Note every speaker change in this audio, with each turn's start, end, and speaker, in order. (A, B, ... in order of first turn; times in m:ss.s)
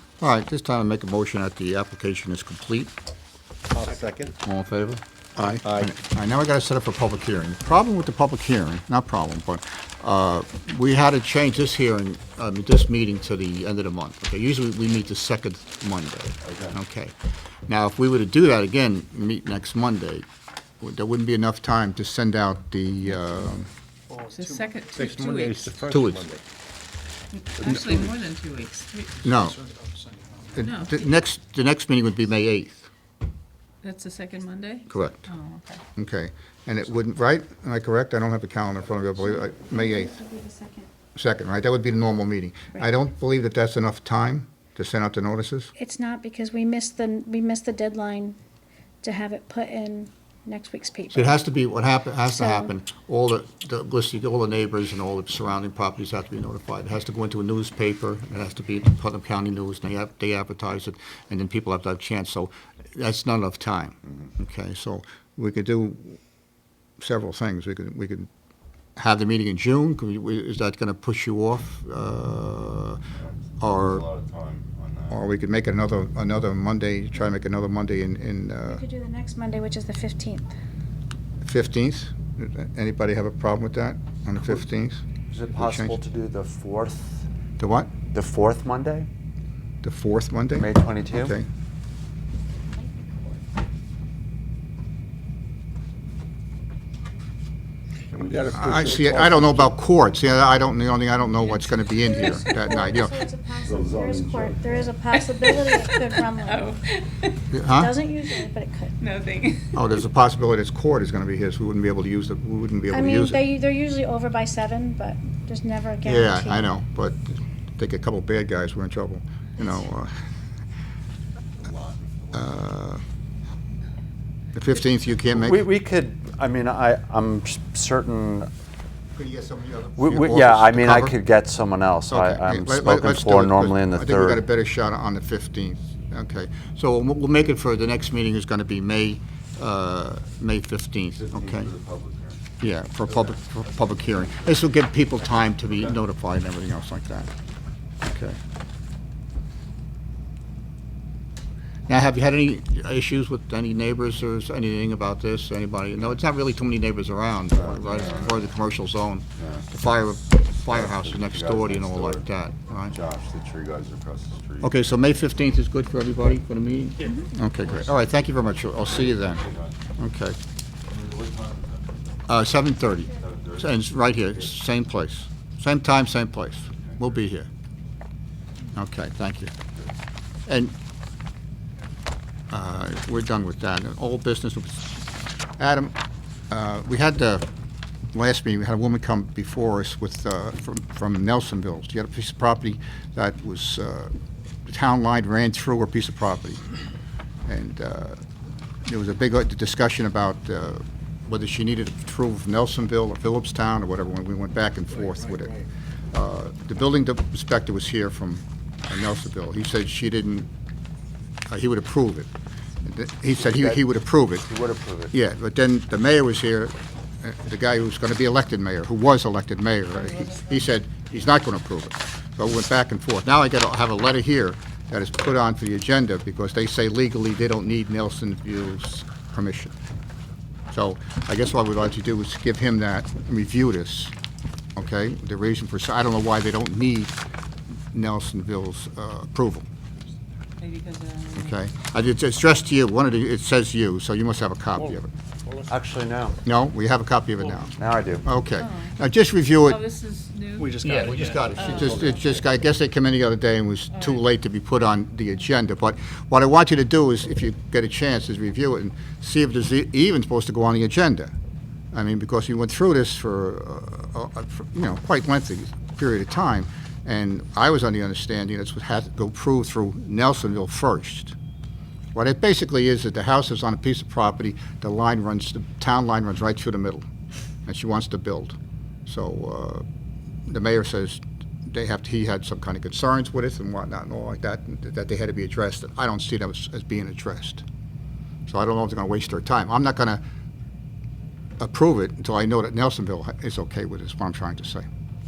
0:00.2-0:02.9 A
0:03.7-0:04.3 B
0:04.4-0:05.0 A
0:05.4-0:05.9 B
0:05.5-0:17.2 A
0:17.7-0:20.2 A
0:20.8-0:23.7 A
0:24.1-0:24.4 C
0:24.3-0:25.8 D
0:24.9-0:26.4 B
0:25.9-0:26.3 A
0:27.3-0:29.2 D
0:27.6-0:28.1 B
0:29.2-0:29.6 A
0:30.5-0:32.9 A
0:30.6-0:31.0 D
0:33.8-0:35.8 D
0:34.9-0:35.3 A
0:35.9-0:40.2 A
0:39.2-0:40.9 E
0:41.1-0:45.7 A
0:45.8-0:48.4 E
0:49.0-0:51.4 E
0:51.1-1:06.2 A
0:52.2-0:52.7 E
1:07.0-1:08.3 A
1:09.0-1:13.0 A
1:13.6-1:14.1 A
1:14.1-1:15.2 C
1:15.1-1:18.8 A
1:18.6-1:20.5 E
1:21.4-1:25.0 A
1:25.3-1:27.2 F
1:25.5-1:26.0 A
1:27.6-1:27.9 A
1:28.0-1:29.1 F
1:29.8-1:31.5 A
1:30.6-1:31.4 F
1:38.1-1:39.7 B
1:38.5-1:43.2 A
1:42.0-1:46.8 E
1:43.6-1:44.9 B
1:45.1-1:47.4 D
1:47.5-1:48.0 A
1:47.6-1:49.0 E
1:49.0-1:49.8 D
1:49.7-1:53.4 A
1:52.9-1:56.7 E
1:56.0-2:00.1 A
2:01.6-2:02.3 C
2:02.3-2:03.0 A
2:04.5-2:05.6 A
2:05.3-2:08.5 F
2:09.1-2:11.1 A
2:10.0-2:14.4 F
2:12.1-2:21.7 A
2:21.4-2:22.4 C
2:22.6-2:27.3 A
2:28.0-2:28.4 A
2:31.9-2:43.0 A
2:37.9-2:38.2 C
2:37.9-2:38.3 D
2:41.0-2:41.6 B
2:43.4-2:44.6 C
2:44.6-2:49.4 A
2:49.2-2:49.7 C
2:50.0-2:50.4 A
2:50.9-2:52.0 C
2:52.3-2:57.5 A
2:53.2-2:53.5 C
2:58.7-2:59.5 A
3:00.5-3:00.7 A
3:02.5-3:05.0 A
3:05.6-3:06.0 A
3:06.5-3:07.4 A
3:08.1-3:14.1 A
3:14.6-3:16.6 A
3:17.4-3:18.2 A
3:18.8-3:25.6 A
3:26.1-3:30.5 A
3:31.5-3:32.3 A
3:32.8-3:34.5 A
3:33.3-3:33.8 F
3:34.4-3:35.1 F
3:35.1-3:49.7 A
3:50.7-3:54.1 A
3:54.8-3:57.1 A
3:57.9-3:59.6 A
4:00.6-4:01.6 D
4:01.4-4:05.1 A
4:05.7-4:06.4 F
4:06.4-4:09.8 A
4:07.8-4:08.2 F
4:08.6-4:08.9 D
4:09.6-4:12.2 D
4:10.7-4:11.4 C
4:10.8-4:21.3 A
4:13.9-4:14.2 D
4:21.9-4:31.3 A
4:32.1-4:37.0 A
4:37.6-4:39.8 A
4:40.5-4:47.6 A
4:48.5-4:50.2 A
4:51.6-4:54.8 A